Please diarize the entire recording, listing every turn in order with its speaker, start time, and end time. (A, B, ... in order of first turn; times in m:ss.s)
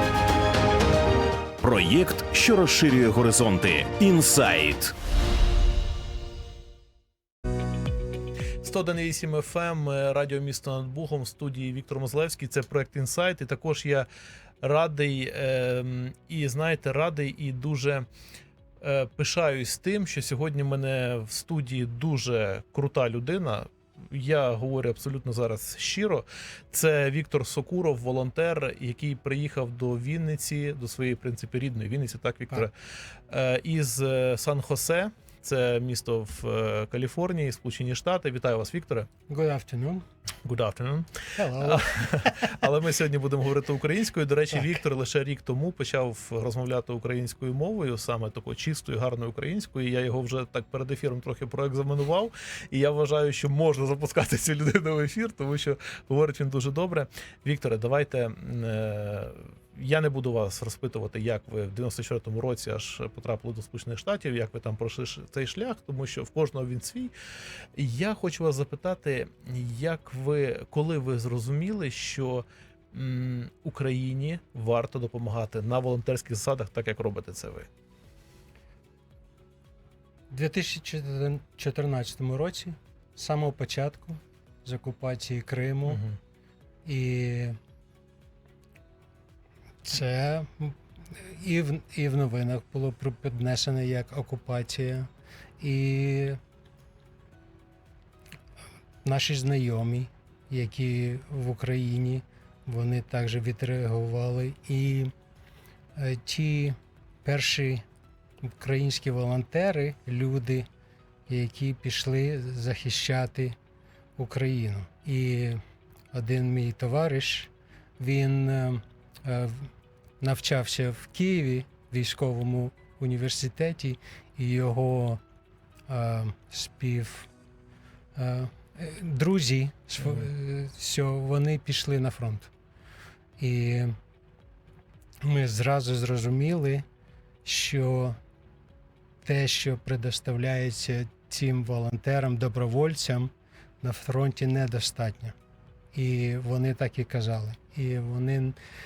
0:01.6-0:04.9 A
0:08.6-0:14.1 B
0:14.6-0:18.0 B
0:18.8-0:32.7 B
0:33.3-0:39.1 B
0:39.3-0:40.0 C
0:40.4-1:07.1 B
0:41.4-0:42.4 C
1:07.8-1:17.7 B
1:20.3-1:26.0 C
1:25.9-1:26.2 B
1:26.8-1:27.6 C
1:29.8-1:35.1 C
1:35.6-1:36.4 C
1:39.0-1:45.1 C
1:45.9-1:47.8 C
1:48.4-1:50.7 C
1:51.3-1:53.6 C
1:54.2-1:55.6 C
1:56.1-2:05.2 C
2:05.9-2:07.3 C
2:08.1-2:12.5 C
2:13.4-2:13.9 C
2:15.2-2:16.8 C
2:17.4-2:18.2 C
2:19.2-2:25.3 C
2:25.9-2:28.6 C